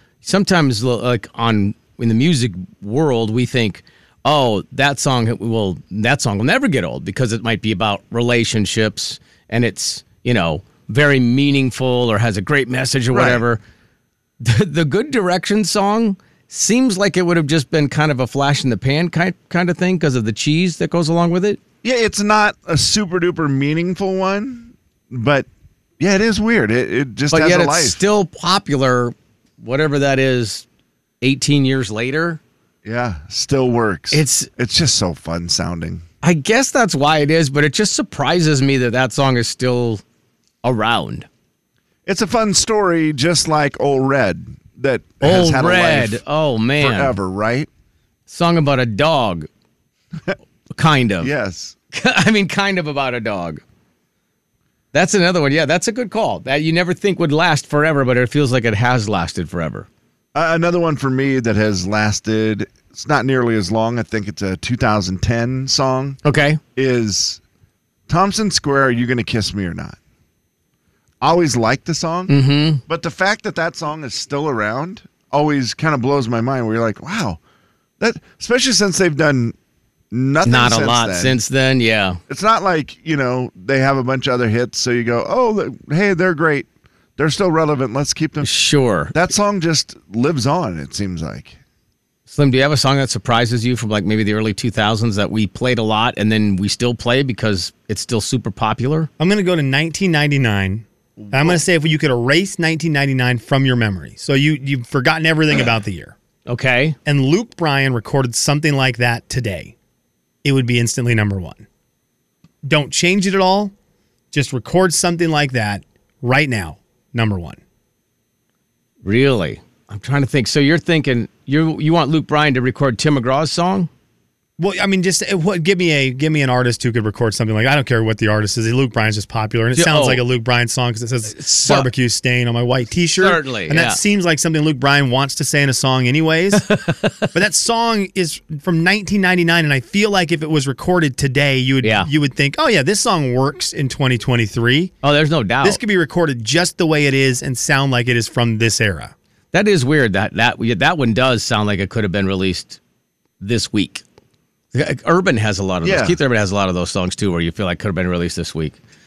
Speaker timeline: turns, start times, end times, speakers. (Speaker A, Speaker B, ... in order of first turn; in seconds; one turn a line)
Speaker A: 0.2-13.6
Speaker B: 13.1-13.4
Speaker A: 14.4-21.6
Speaker B: 21.8-25.5
Speaker B: 26.0-28.0
Speaker A: 27.3-30.6
Speaker A: 31.2-32.4
Speaker B: 32.8-36.0
Speaker A: 34.1-34.5
Speaker A: 36.2-40.0
Speaker A: 40.6-41.3
Speaker B: 42.0-46.2
Speaker A: 45.2-47.1
Speaker B: 46.8-47.7
Speaker A: 48.3-49.5
Speaker A: 50.7-51.3
Speaker B: 51.2-51.7
Speaker A: 51.9-53.6
Speaker A: 54.9-59.9
Speaker B: 60.3-66.2
Speaker A: 66.2-66.6
Speaker B: 66.8-67.4
Speaker B: 68.1-70.0
Speaker B: 71.2-72.3
Speaker A: 72.3-72.8
Speaker B: 72.9-77.4
Speaker B: 78.0-79.5
Speaker B: 80.1-81.4
Speaker A: 80.4-82.2
Speaker B: 82.3-88.5
Speaker A: 88.4-89.1
Speaker B: 89.1-91.6
Speaker A: 92.3-99.1
Speaker C: 99.2-106.2
Speaker B: 101.2-101.6
Speaker A: 106.5-107.0
Speaker C: 107.0-109.7
Speaker C: 110.4-111.7
Speaker C: 112.6-113.7
Speaker C: 114.3-117.6
Speaker A: 119.0-123.9
Speaker C: 124.6-136.6
Speaker A: 129.7-130.2
Speaker A: 131.4-131.9
Speaker A: 133.2-134.0
Speaker A: 136.6-137.3
Speaker C: 137.3-144.9
Speaker A: 141.8-142.1
Speaker A: 145.0-145.8
Speaker C: 145.6-149.1
Speaker A: 149.5-152.8
Speaker A: 153.4-154.0
Speaker A: 154.7-158.8
Speaker B: 155.8-156.2